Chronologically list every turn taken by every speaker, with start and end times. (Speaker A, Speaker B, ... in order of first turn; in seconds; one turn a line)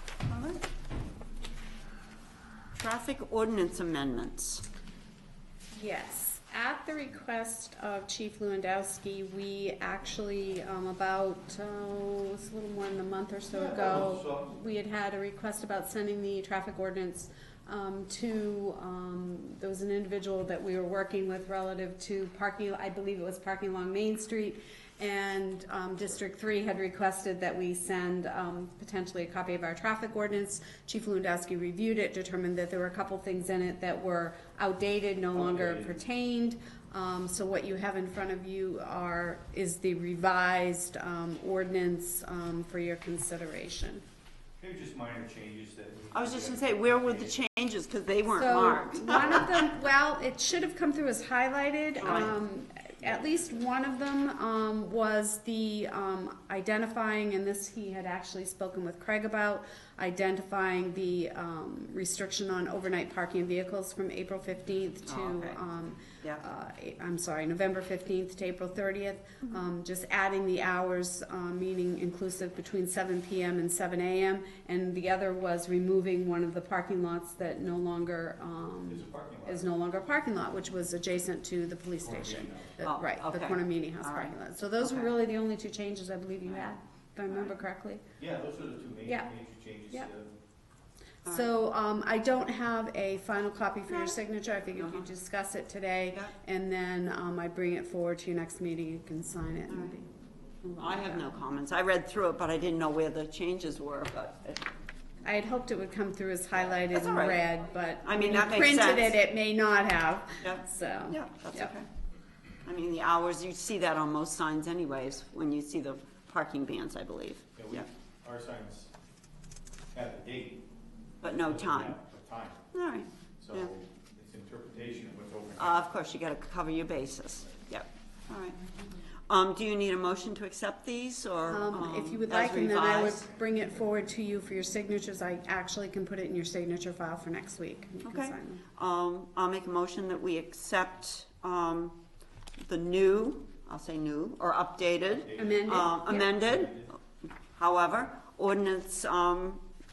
Speaker A: 0.2-0.6
Speaker A: 2.8-4.6
Speaker B: 5.7-44.0
Speaker C: 13.5-14.5
Speaker C: 35.3-36.0
Speaker C: 44.6-47.4
Speaker A: 46.1-49.6
Speaker B: 48.3-88.0
Speaker C: 49.1-49.4
Speaker A: 52.0-52.3
Speaker C: 52.0-52.4
Speaker C: 53.0-54.0
Speaker A: 65.0-65.6
Speaker C: 78.9-79.7
Speaker C: 82.0-82.8
Speaker A: 82.8-85.1
Speaker C: 88.2-90.3
Speaker B: 91.2-100.1
Speaker A: 93.9-94.2
Speaker A: 94.7-95.1
Speaker A: 96.1-96.3
Speaker A: 99.7-99.9
Speaker B: 100.6-101.3
Speaker A: 100.8-104.6
Speaker B: 105.2-111.7
Speaker A: 106.9-107.5
Speaker A: 108.0-109.2
Speaker A: 110.4-111.8
Speaker A: 112.6-117.9
Speaker C: 117.5-118.9
Speaker C: 119.9-120.6
Speaker A: 121.2-122.0
Speaker C: 121.3-122.6
Speaker A: 122.7-123.7
Speaker C: 123.4-125.8
Speaker A: 125.6-128.6
Speaker A: 129.3-133.2
Speaker B: 131.5-138.6
Speaker A: 138.0-142.0
Speaker A: 142.6-146.7
Speaker C: 145.1-147.0
Speaker B: 145.3-146.3
Speaker A: 147.5-149.6